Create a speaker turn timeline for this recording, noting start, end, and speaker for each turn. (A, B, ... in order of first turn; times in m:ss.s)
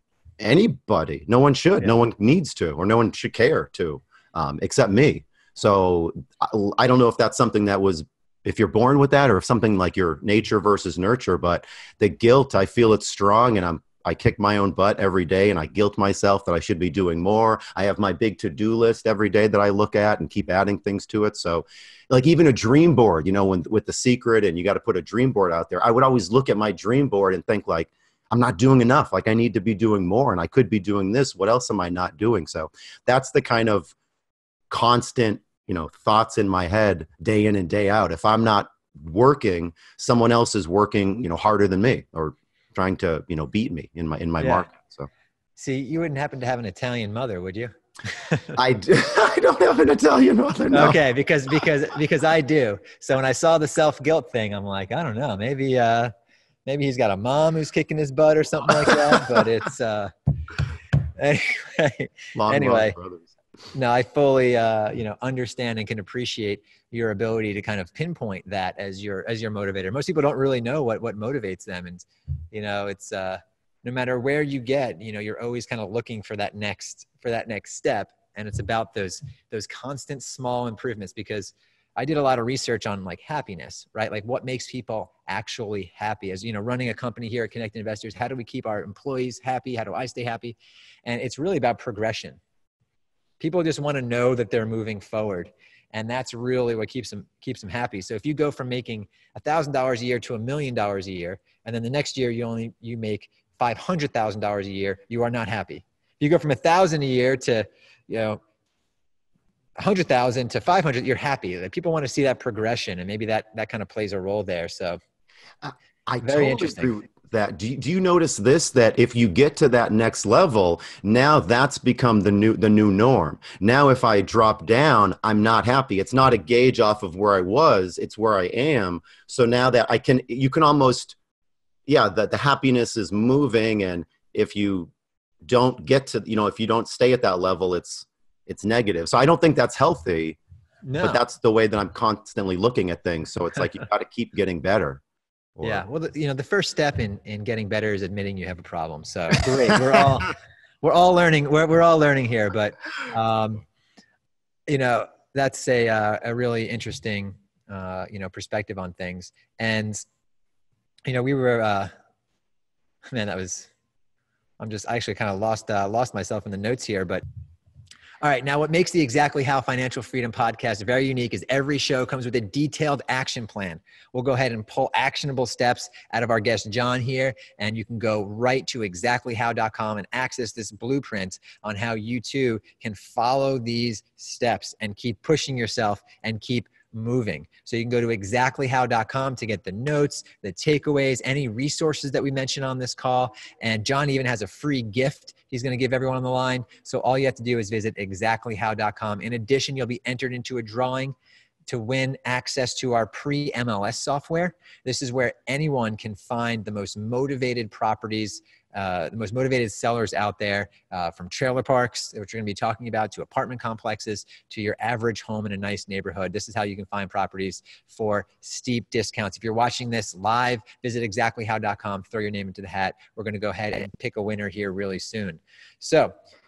0:00.4-0:33.9 A
0:34.7-0:45.1 A
0:44.4-0:44.7 B
0:45.6-0:48.6 B
0:48.6-0:51.0 A
0:50.7-0:56.1 B
0:56.7-1:00.1 B
1:01.2-1:03.0 B
1:02.4-1:03.3 A
1:03.7-1:32.4 B
1:33.4-1:48.4 B
1:49.8-1:55.0 B
1:55.6-2:11.2 A
1:56.2-1:56.9 B
2:11.9-2:14.9 A
2:15.4-2:20.4 A
2:20.8-2:21.2 B
2:21.0-2:25.0 A
2:25.6-2:25.8 A
2:25.6-2:33.6 B
2:34.7-2:40.0 B
2:41.1-2:41.9 B
2:43.1-2:43.7 B
2:44.6-2:47.2 B
2:48.2-3:21.2 B
3:21.7-3:46.1 B